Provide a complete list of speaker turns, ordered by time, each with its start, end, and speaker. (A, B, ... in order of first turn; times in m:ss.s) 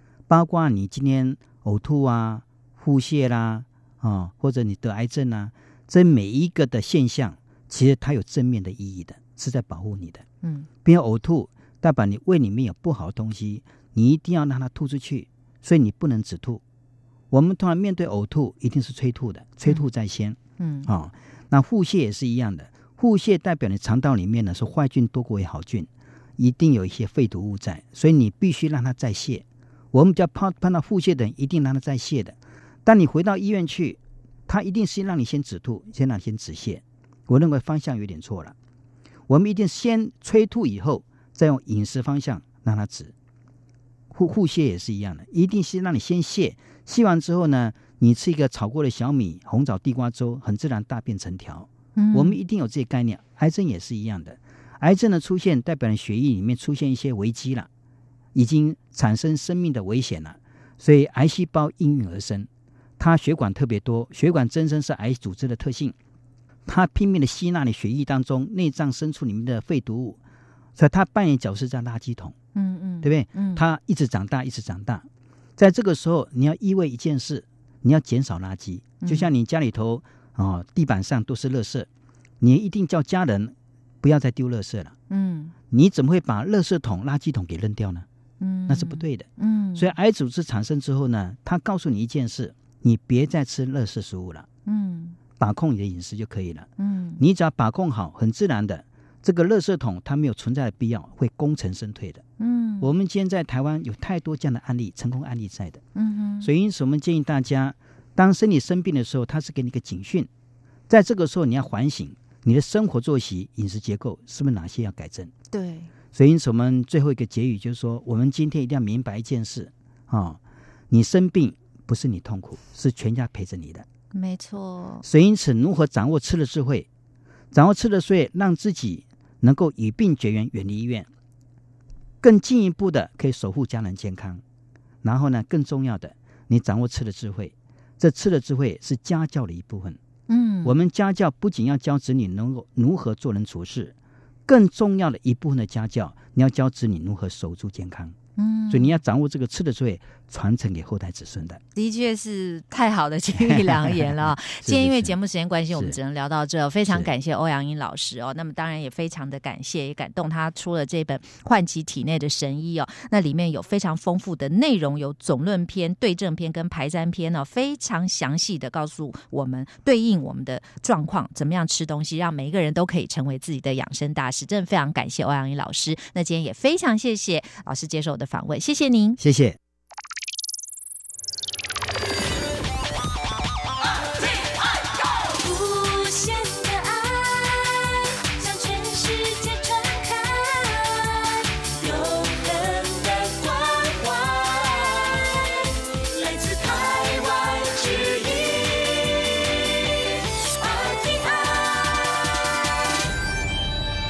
0:00.3-0:10.2 A
0:10.4-0:10.7 B
0:10.8-0:16.6 A
0:17.3-0:38.5 A
0:20.6-0:20.9 B
0:39.3-0:43.1 A
0:44.1-0:57.7 A
0:52.0-0:52.4 B
0:58.3-1:02.5 A
1:03.0-1:05.9 A
1:06.6-1:10.2 A
1:10.8-1:12.3 A
1:12.5-1:13.6 B
1:13.0-1:15.0 A
1:15.6-1:21.9 A
1:19.0-1:19.3 B
1:22.4-1:24.9 A
1:25.1-1:25.5 B
1:25.7-1:28.0 A
1:28.4-1:29.9 B
1:28.7-1:34.5 A
1:34.6-1:35.2 B
1:35.4-1:42.2 A
1:36.8-1:37.2 B
1:42.4-1:42.9 B
1:42.8-1:45.8 A
1:45.9-1:46.5 B
1:46.4-1:50.3 A
1:50.9-1:55.3 A
1:55.5-1:55.9 B
1:56.1-2:03.8 A
2:04.1-2:05.0 B
2:05.0-2:06.9 A
2:07.5-2:11.1 A
2:12.2-2:14.4 A
2:15.0-2:20.0 A
2:20.3-2:20.8 B
2:20.6-2:23.9 A
2:24.5-2:28.2 A
2:28.4-2:29.0 B
2:28.7-2:31.6 A
2:31.8-2:59.2 B
2:33.3-2:35.1 A
2:35.7-2:36.0 A
2:59.2-2:59.6 A
3:05.2-3:19.8 C
3:20.4-3:22.6 C